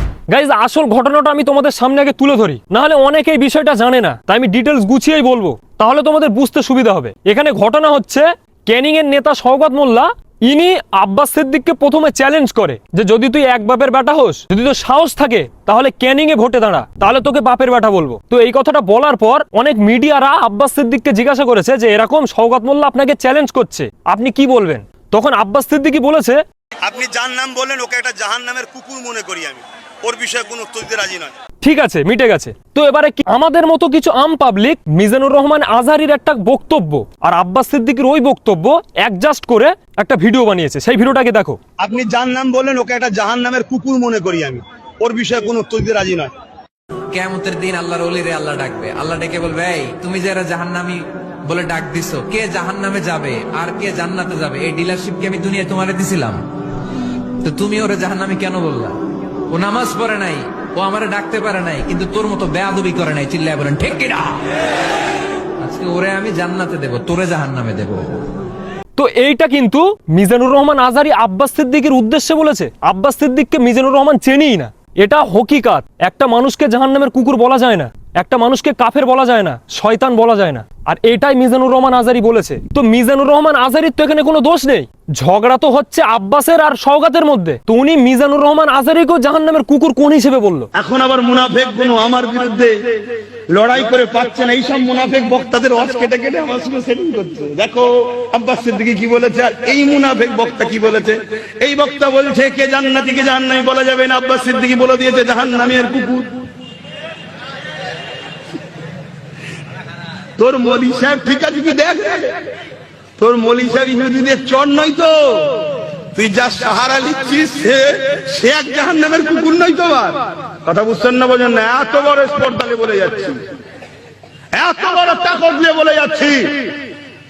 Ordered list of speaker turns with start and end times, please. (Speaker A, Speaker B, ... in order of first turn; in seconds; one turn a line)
Speaker A: 0.3-26.4
Speaker B: 26.8-31.3
Speaker A: 31.6-41.6
Speaker B: 41.8-46.3
Speaker C: 47.1-56.4
Speaker C: 57.4-64.4
Speaker C: 65.6-68.2
Speaker A: 69.0-90.7
Speaker B: 90.8-92.7
Speaker B: 93.5-106.3
Speaker B: 110.4-112.4
Speaker B: 113.2-115.6
Speaker B: 116.2-123.4
Speaker B: 124.5-126.7